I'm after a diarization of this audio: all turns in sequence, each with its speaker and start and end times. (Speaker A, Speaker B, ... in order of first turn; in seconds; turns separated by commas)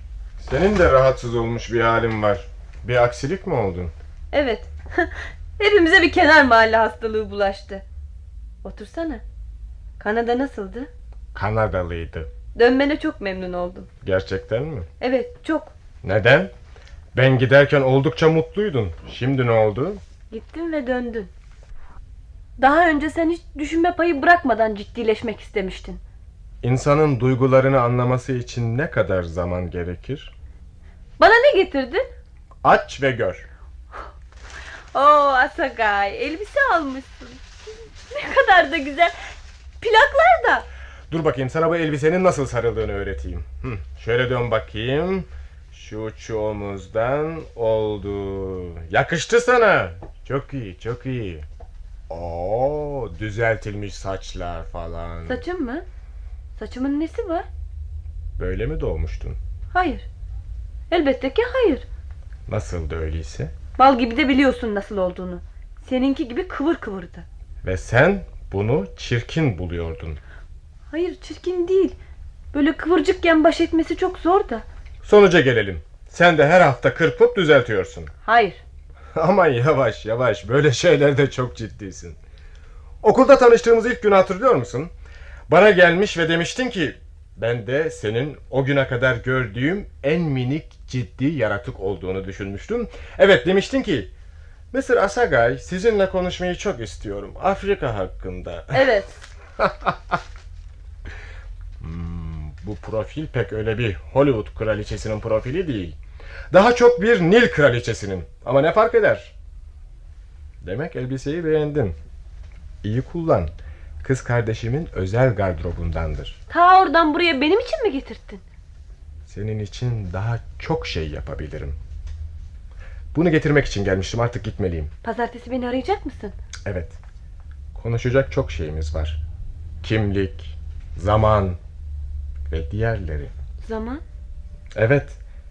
Speaker A: 0.4-3.9, Speaker B: 4.3-7.8, Speaker B: 8.6-9.2, Speaker B: 10.0-10.9, Speaker A: 11.3-12.3, Speaker B: 12.5-13.9, Speaker A: 14.0-14.9, Speaker B: 15.0-15.7, Speaker A: 16.0-16.5, Speaker A: 17.1-20.0, Speaker B: 20.3-21.3, Speaker B: 22.6-26.0, Speaker A: 26.6-30.3, Speaker B: 31.2-32.1, Speaker A: 32.6-33.4, Speaker B: 34.9-37.4, Speaker B: 38.1-39.1, Speaker B: 39.8-40.6, Speaker A: 41.1-51.5, Speaker A: 52.1-55.4, Speaker B: 55.3-55.8, Speaker B: 56.6-57.5, Speaker A: 58.4-59.4, Speaker B: 59.7-60.0, Speaker B: 60.9-61.9, Speaker A: 62.5-63.5, Speaker B: 63.8-67.2, Speaker A: 67.6-70.2, Speaker B: 70.9-72.0, Speaker B: 72.5-74.6, Speaker A: 75.0-78.1, Speaker B: 78.2-78.6, Speaker A: 79.1-82.2, Speaker A: 83.0-84.9, Speaker A: 85.5-94.1, Speaker A: 94.7-98.9, Speaker B: 98.7-99.1, Speaker A: 99.6-100.2, Speaker A: 101.8-106.0, Speaker A: 106.5-109.3, Speaker A: 110.6-112.0, Speaker A: 112.8-116.4, Speaker B: 116.5-118.4, Speaker A: 119.3-121.8, Speaker A: 123.1-124.9, Speaker B: 125.0-126.3, Speaker A: 126.6-127.0, Speaker A: 127.7-129.2, Speaker A: 129.8-131.6, Speaker A: 132.5-133.3, Speaker B: 133.6-134.0, Speaker A: 134.7-135.2